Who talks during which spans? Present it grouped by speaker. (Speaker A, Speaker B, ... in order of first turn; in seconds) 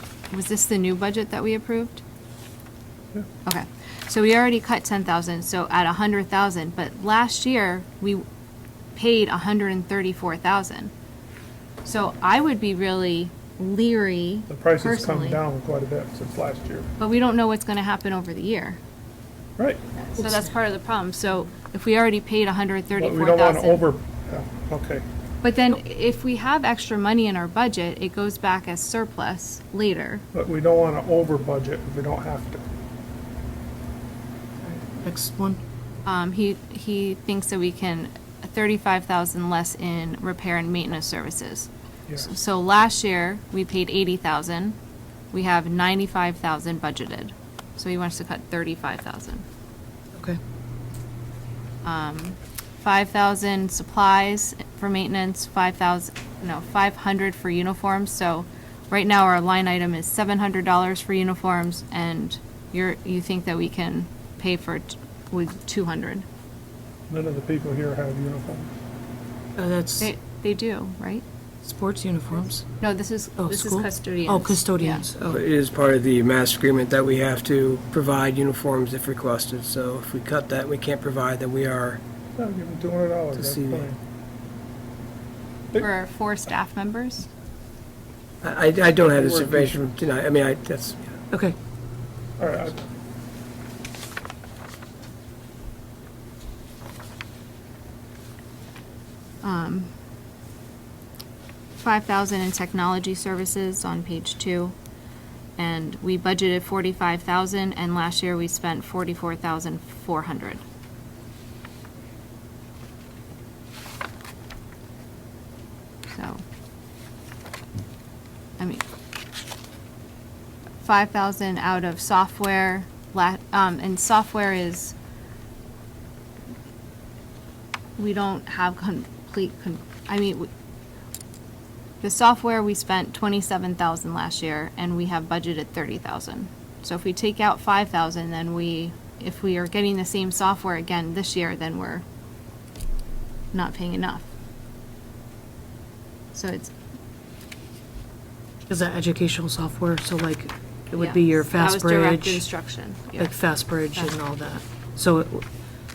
Speaker A: 0.3-2.0, 3.5-8.2, 8.9-10.9, 11.8-15.4, 17.0-18.8, 20.0-23.9, 25.4-30.2, 36.0-44.8, 45.3-49.4, 51.8-66.2, 70.0-71.2, 72.8-75.1, 85.8-87.3, 99.4-99.9, 101.8-104.7, 105.6-110.6, 116.1-116.4, 118.6-118.8, 120.8-124.9, 128.0-130.5, 132.0-142.0, 143.5-144.2, 146.3-146.7, 151.0-153.4
Speaker B: 14.5-16.9, 22.9-25.0, 30.3-32.6, 42.1-42.3, 67.1-68.7, 82.4-84.0, 89.0-89.8, 92.4-92.9
Speaker C: 20.2-20.5, 34.6-35.6, 50.1-50.4, 69.5-70.1, 71.6-72.7, 73.4-75.4, 91.3-91.5, 148.7-152.4, 153.2-155.4
Speaker D: 75.2-82.0, 83.3-83.9, 88.4-91.1